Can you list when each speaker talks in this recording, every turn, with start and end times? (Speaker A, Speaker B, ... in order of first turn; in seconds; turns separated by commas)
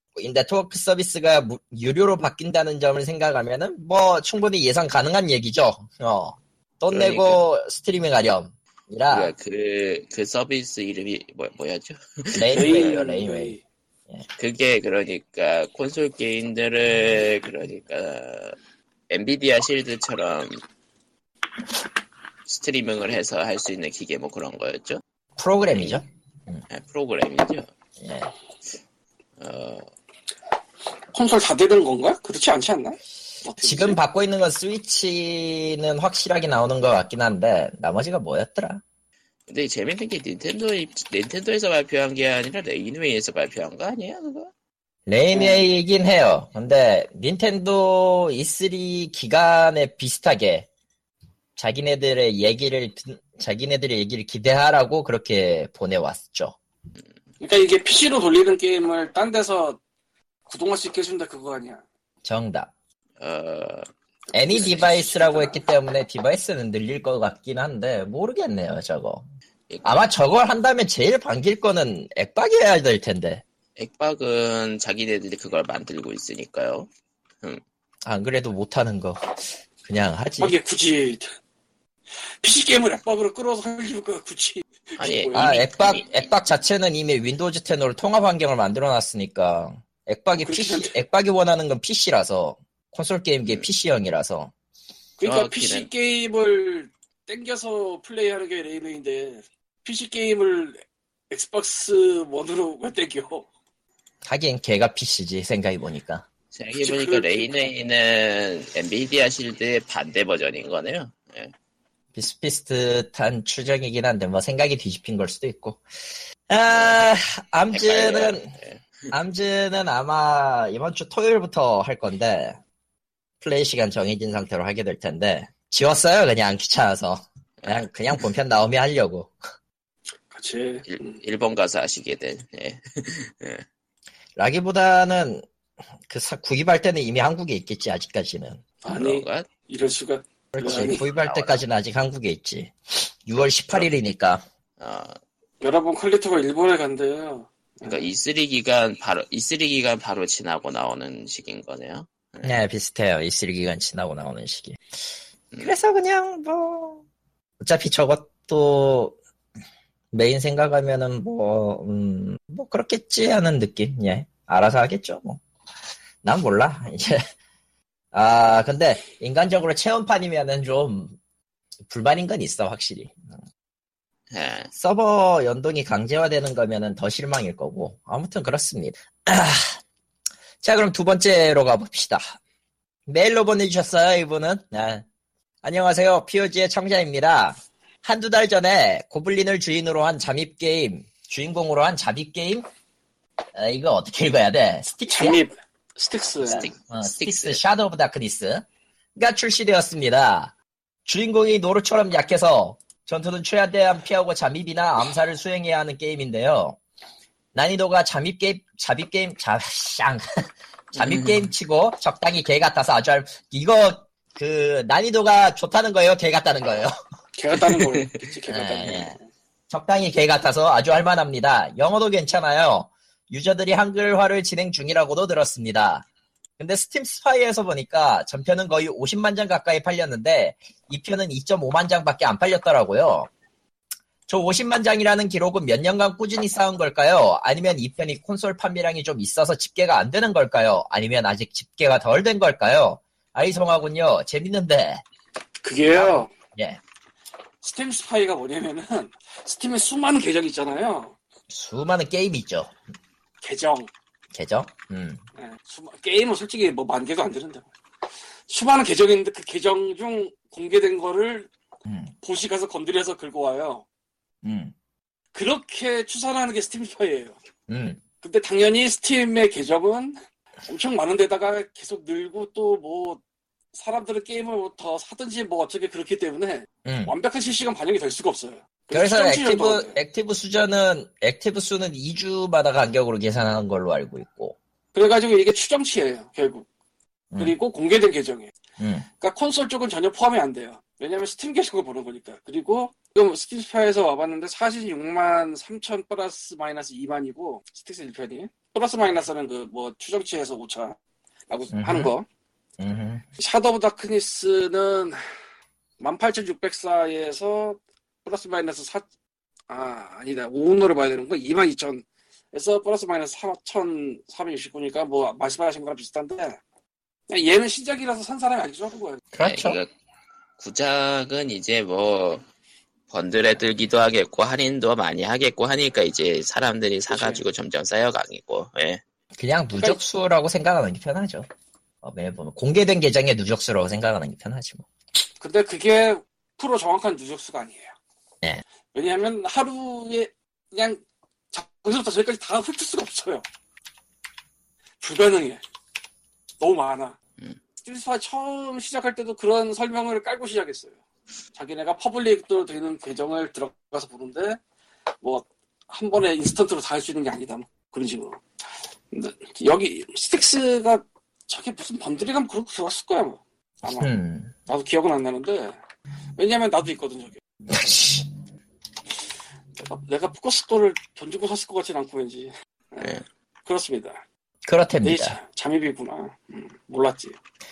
Speaker A: 0.2-9.3, Speaker B: 6.9-7.4, Speaker B: 9.1-12.8, Speaker A: 12.3-13.6, Speaker C: 12.5-13.6, Speaker B: 14.4-18.6, Speaker B: 19.1-20.6, Speaker B: 22.5-25.0, Speaker A: 25.4-26.6, Speaker B: 26.7-27.7, Speaker A: 28.0-28.3, Speaker B: 29.4-29.9, Speaker C: 31.1-34.0, Speaker A: 33.6-38.8, Speaker B: 39.5-44.5, Speaker A: 45.1-50.7, Speaker C: 45.3-45.6, Speaker A: 51.6-56.6, Speaker C: 57.4-59.8, Speaker C: 60.5-61.8, Speaker A: 62.2-62.7, Speaker B: 63.2-63.9, Speaker A: 64.3-69.2, Speaker C: 64.5-65.6, Speaker B: 69.7-70.0, Speaker A: 69.8-73.4, Speaker B: 73.8-76.9, Speaker A: 78.0-80.6, Speaker C: 80.4-81.3, Speaker C: 82.4-85.6, Speaker B: 85.0-86.1, Speaker A: 85.3-94.5, Speaker C: 90.4-91.0, Speaker C: 95.2-103.5, Speaker B: 95.2-95.9, Speaker A: 104.2-106.2, Speaker B: 106.5-111.5, Speaker C: 106.8-107.7, Speaker A: 112.1-115.8, Speaker A: 116.5-118.5, Speaker B: 116.7-117.0, Speaker B: 117.7-119.1, Speaker A: 119.1-122.6, Speaker A: 123.4-129.3, Speaker B: 127.6-127.9, Speaker C: 130.3-131.1, Speaker B: 130.9-133.7, Speaker A: 134.4-135.5, Speaker A: 136.1-138.6, Speaker C: 138.8-141.0, Speaker B: 138.9-139.5, Speaker A: 140.5-142.7, Speaker B: 141.1-141.6, Speaker A: 143.3-144.4, Speaker B: 144.8-145.2, Speaker C: 145.6-148.1, Speaker B: 147.8-152.6, Speaker A: 152.4-154.8, Speaker A: 155.6-157.0, Speaker A: 157.6-159.2, Speaker A: 160.1-165.4, Speaker A: 166.2-167.2, Speaker A: 168.1-171.2, Speaker A: 171.9-173.3, Speaker B: 174.3-174.7, Speaker A: 174.7-179.8, Speaker A: 180.6-182.3, Speaker A: 183.1-185.1, Speaker A: 185.6-192.7, Speaker A: 193.6-195.4, Speaker C: 195.1-196.7, Speaker B: 196.5-197.6, Speaker A: 196.5-198.6, Speaker A: 199.2-200.5, Speaker A: 201.1-206.8, Speaker A: 207.5-210.4, Speaker B: 210.9-211.5, Speaker A: 210.9-216.9, Speaker C: 217.4-219.2, Speaker B: 217.7-218.2, Speaker A: 218.5-219.2, Speaker A: 219.7-226.1, Speaker A: 226.6-233.3, Speaker A: 234.3-245.0, Speaker C: 245.6-246.3, Speaker A: 245.8-246.8, Speaker C: 247.6-251.2, Speaker A: 251.5-252.7, Speaker C: 253.4-253.9, Speaker A: 254.3-255.2, Speaker C: 255.4-257.7, Speaker C: 258.5-261.5, Speaker A: 261.9-262.1, Speaker C: 262.2-263.8, Speaker A: 264.4-264.7, Speaker C: 265.3-267.4, Speaker A: 267.7-268.0, Speaker C: 268.2-273.2, Speaker C: 273.7-280.0, Speaker A: 276.9-277.1, Speaker A: 278.9-284.6, Speaker C: 284.9-286.6, Speaker C: 287.4-288.5, Speaker A: 288.8-289.1, Speaker C: 289.2-301.0, Speaker C: 301.5-302.2, Speaker A: 301.7-302.1, Speaker A: 302.8-303.2, Speaker C: 303.4-305.2, Speaker C: 306.0-309.1, Speaker C: 309.7-316.6, Speaker C: 317.3-319.2, Speaker A: 319.3-319.8, Speaker B: 319.4-319.9, Speaker B: 320.6-322.4, Speaker B: 323.1-329.0, Speaker C: 327.1-327.4, Speaker A: 329.4-331.5, Speaker A: 332.0-334.9, Speaker C: 335.4-337.9, Speaker C: 338.9-343.4, Speaker C: 345.0-345.6, Speaker C: 346.6-347.2, Speaker C: 347.8-350.9, Speaker C: 351.6-354.6, Speaker C: 355.2-358.4, Speaker C: 359.1-364.1, Speaker A: 363.9-364.5, Speaker C: 364.7-365.8, Speaker C: 366.4-367.4, Speaker A: 367.7-368.3, Speaker C: 369.8-374.2, Speaker A: 374.7-375.4, Speaker C: 375.0-377.4